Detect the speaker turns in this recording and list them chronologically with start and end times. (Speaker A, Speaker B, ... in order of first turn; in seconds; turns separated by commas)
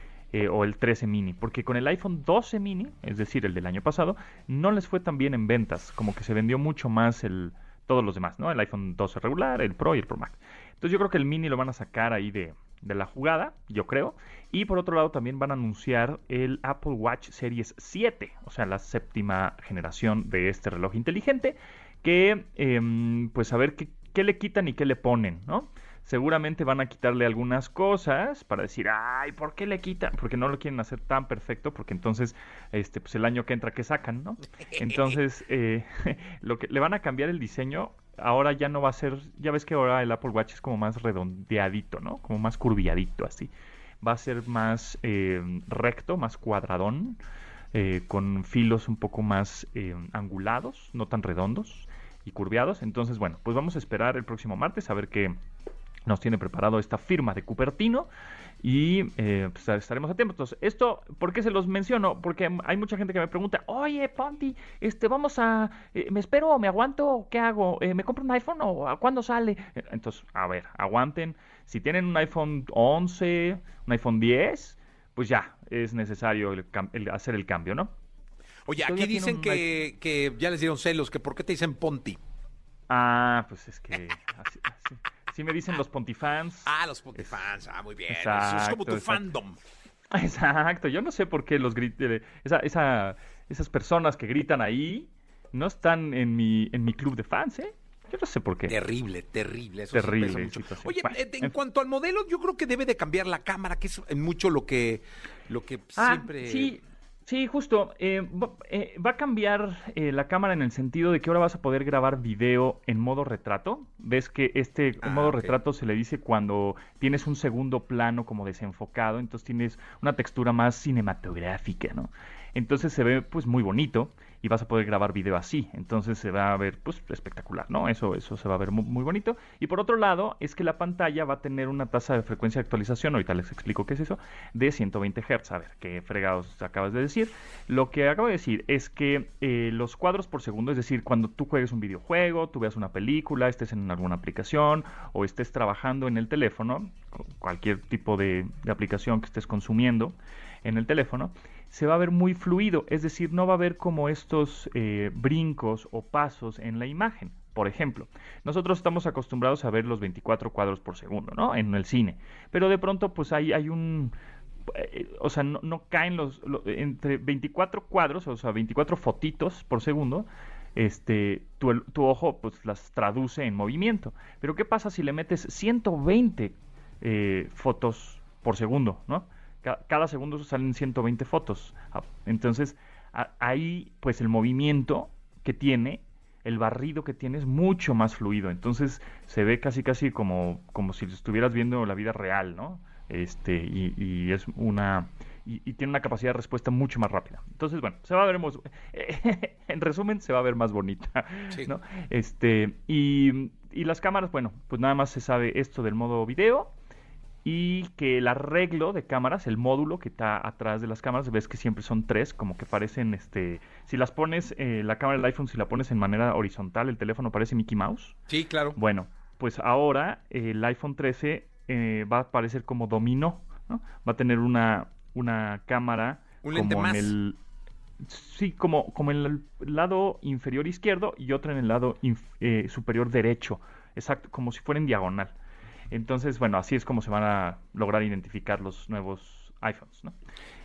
Speaker A: 0.3-47.2, Speaker A: 47.7-55.4, Speaker A: 56.1-58.1, Speaker A: 58.6-77.9, Speaker B: 78.7-82.2, Speaker A: 78.8-79.7, Speaker A: 82.9-87.4, Speaker B: 86.7-89.6, Speaker A: 88.1-89.3, Speaker A: 90.1-98.8, Speaker B: 98.7-106.7, Speaker A: 99.9-101.5, Speaker A: 106.0-164.1, Speaker B: 115.0-115.6, Speaker A: 164.7-206.7, Speaker A: 207.4-218.2, Speaker B: 218.3-218.8, Speaker A: 218.8-227.4, Speaker B: 226.4-227.1, Speaker A: 228.0-235.4, Speaker A: 235.9-240.2